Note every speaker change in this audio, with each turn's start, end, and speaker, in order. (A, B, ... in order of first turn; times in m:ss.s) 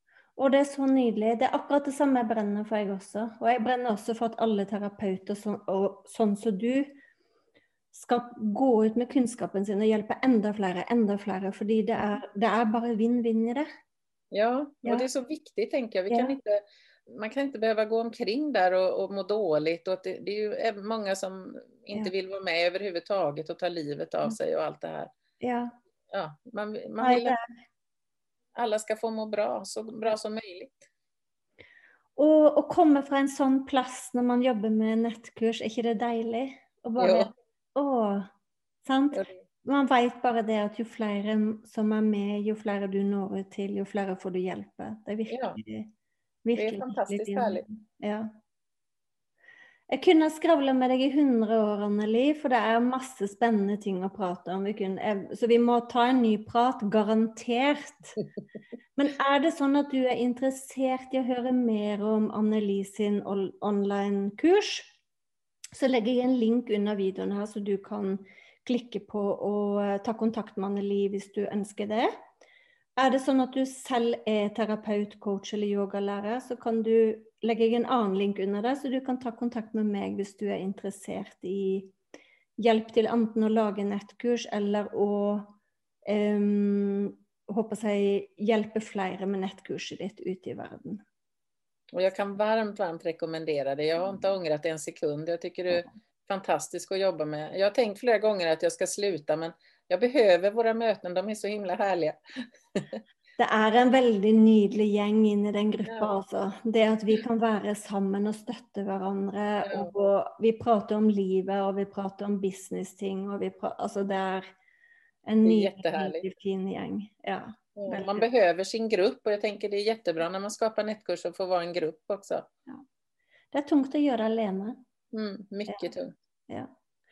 0:00.4-0:07.0 A
0:07.9-0:13.7 A
0:14.3-0:25.1 B
0:16.1-0:16.4 A
0:25.4-0:25.8 A
0:26.1-0:27.4 B
0:27.0-0:27.4 A
0:28.6-0:30.8 B
0:32.2-0:38.3 A
0:37.0-0:37.3 B
0:38.8-0:45.9 A
0:45.3-0:45.6 B
0:46.4-0:48.3 A
0:46.6-0:47.6 B
0:49.9-0:58.2 A
0:59.0-1:05.0 A
1:05.7-1:12.1 A
1:13.0-1:21.9 A
1:22.6-1:25.5 A
1:26.1-1:31.0 A
1:31.9-1:42.2 B
1:43.4-1:54.4 A
1:45.9-1:46.1 B
1:49.6-1:49.9 B
1:55.2-1:58.3 A
1:55.4-1:56.2 B
1:57.8-2:02.5 B
2:03.5-2:04.8 A
2:05.1-2:06.1 B